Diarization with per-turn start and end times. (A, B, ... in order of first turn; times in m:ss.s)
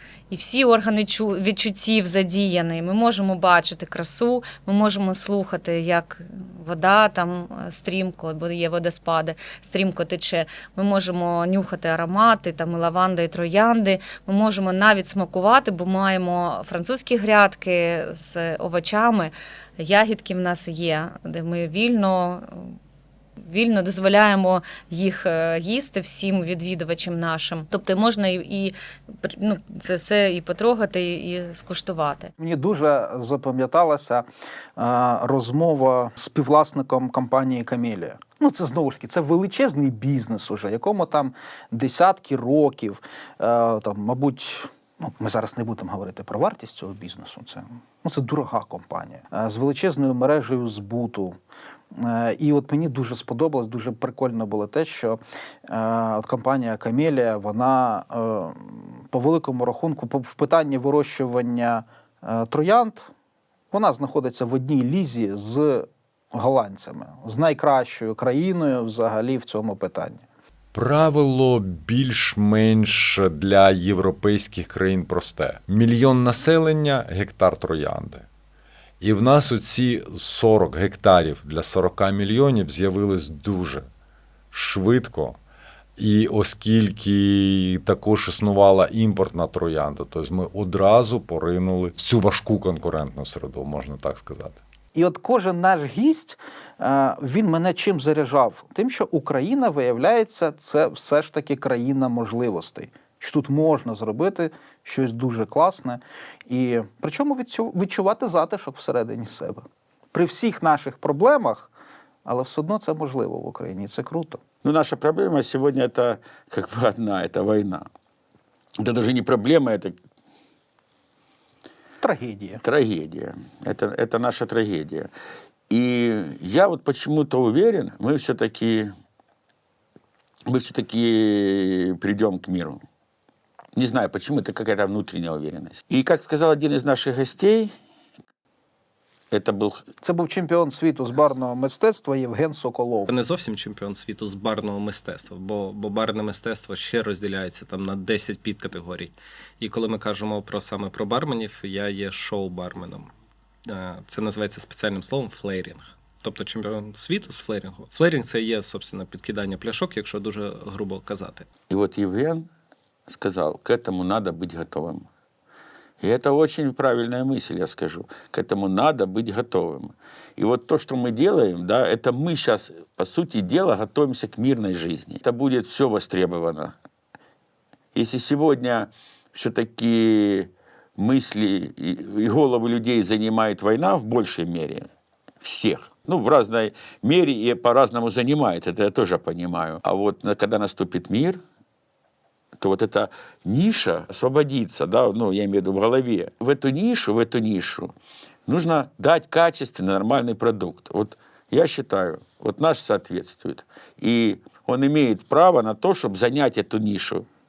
0:00.3-0:22.5 A
0:23.4-0:32.3 A
0:32.4-0:34.2 B
0:34.8-0:51.4 B
0:52.0-1:03.1 B
1:03.7-1:10.2 B
1:10.7-1:18.3 C
1:19.0-1:23.9 C
1:24.5-1:25.4 C
1:26.0-1:34.6 C
1:34.9-1:51.7 B
1:52.3-1:54.4 B
1:54.6-1:57.9 D
1:58.8-2:00.0 D
2:02.0-2:02.6 B
2:02.6-2:05.1 D
2:05.7-2:08.9 D
2:10.5-2:12.8 D
2:13.8-2:17.7 D
2:19.3-2:19.8 D
2:20.0-2:23.1 B
2:23.1-2:33.1 E
2:33.6-2:41.5 E
2:41.7-2:42.5 D
2:43.1-2:45.1 D
2:46.0-2:56.7 D
2:57.9-3:04.9 D
3:05.4-3:11.4 D
3:12.6-3:17.9 D
3:18.5-3:27.3 D